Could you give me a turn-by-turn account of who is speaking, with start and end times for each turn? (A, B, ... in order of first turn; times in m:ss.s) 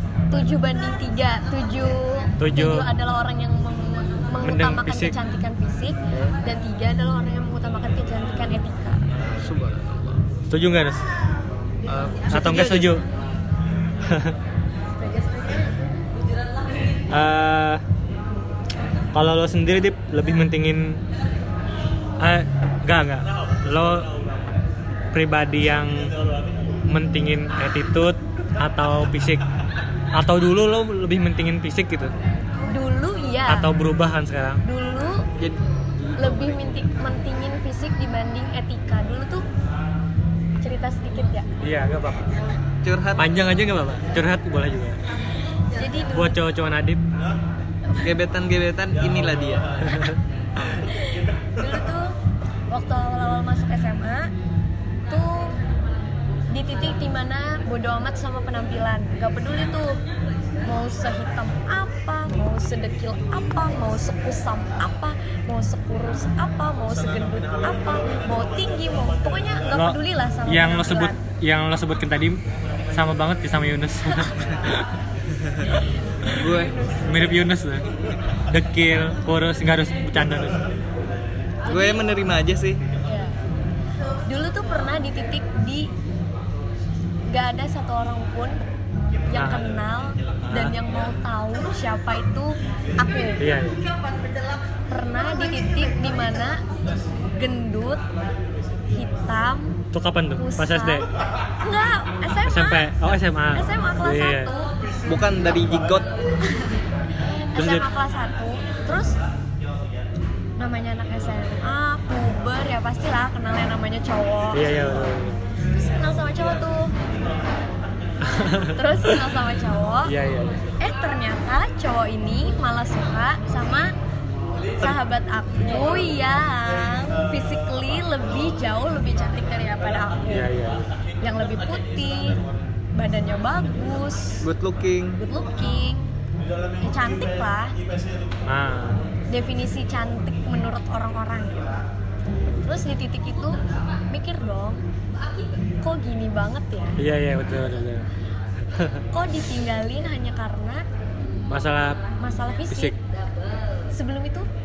0:00.3-0:09.2 A
0:02.4-0:02.9 B
0:04.4-0:05.2 B
0:09.3-0:10.2 C
0:10.5-0:11.1 B
0:11.9-0:13.0 C
0:12.3-0:13.0 B
0:14.0-0:14.4 B
0:15.0-0:15.8 A
0:17.1-0:17.8 B
0:19.1-0:21.0 B
0:22.2-0:24.1 B
0:25.1-0:26.1 B
0:26.9-0:29.4 B
0:30.1-0:32.1 B
0:32.7-0:33.7 A
0:33.5-0:34.6 B
0:34.6-0:35.3 A
0:35.4-0:36.9 C
0:36.2-0:39.5 A
0:40.6-0:41.5 A
0:41.6-0:42.4 B
0:42.8-0:43.3 C
0:43.2-0:45.0 B
0:45.8-0:46.4 A
0:46.1-0:47.0 B
0:48.0-0:49.8 C
0:49.9-0:50.2 B
0:50.8-0:52.2 A
0:52.7-0:54.3 A
0:55.1-0:55.6 A
0:56.5-1:00.0 A
1:00.6-1:11.2 A
1:09.7-1:12.4 B
1:12.9-1:14.9 B
1:15.4-1:15.7 C
1:15.7-1:17.3 A
1:16.3-1:16.8 C
1:17.0-1:17.9 B
1:18.5-1:20.6 B
1:21.6-1:22.0 A
1:21.7-1:22.8 C
1:23.0-1:23.4 A
1:24.3-1:25.9 A
1:27.3-1:28.6 A
1:29.3-1:33.4 A
1:29.3-1:29.7 B
1:30.5-1:30.8 B
1:33.4-1:33.8 B
1:34.9-1:36.6 A
1:37.4-1:38.0 A
1:38.9-1:39.8 A
1:39.9-1:41.1 B
1:40.4-1:41.1 A
1:41.6-1:42.9 A
1:42.4-1:44.5 B
1:43.5-1:44.7 A
1:45.1-1:46.1 C
1:47.2-1:49.2 A
1:47.6-1:47.9 B
1:50.6-1:54.7 A
1:54.5-1:55.4 B
1:55.7-1:57.0 A
1:58.3-1:59.2 B
1:58.4-2:00.2 A
2:00.0-2:00.6 B
2:00.8-2:03.9 A
2:04.8-2:10.5 A
2:10.3-2:10.8 B
2:11.2-2:12.4 A
2:13.0-2:14.5 A
2:14.4-2:15.2 C
2:15.2-2:16.2 A
2:16.8-2:17.8 A
2:18.5-2:19.0 B
2:19.3-2:21.8 A
2:22.6-2:23.6 A
2:24.1-2:24.8 A
2:25.8-2:27.0 A
2:27.0-2:28.1 B
2:28.7-2:29.0 B
2:29.1-2:30.8 A
2:31.5-2:32.0 B
2:32.2-2:33.0 A
2:32.7-2:33.0 B
2:33.9-2:34.5 A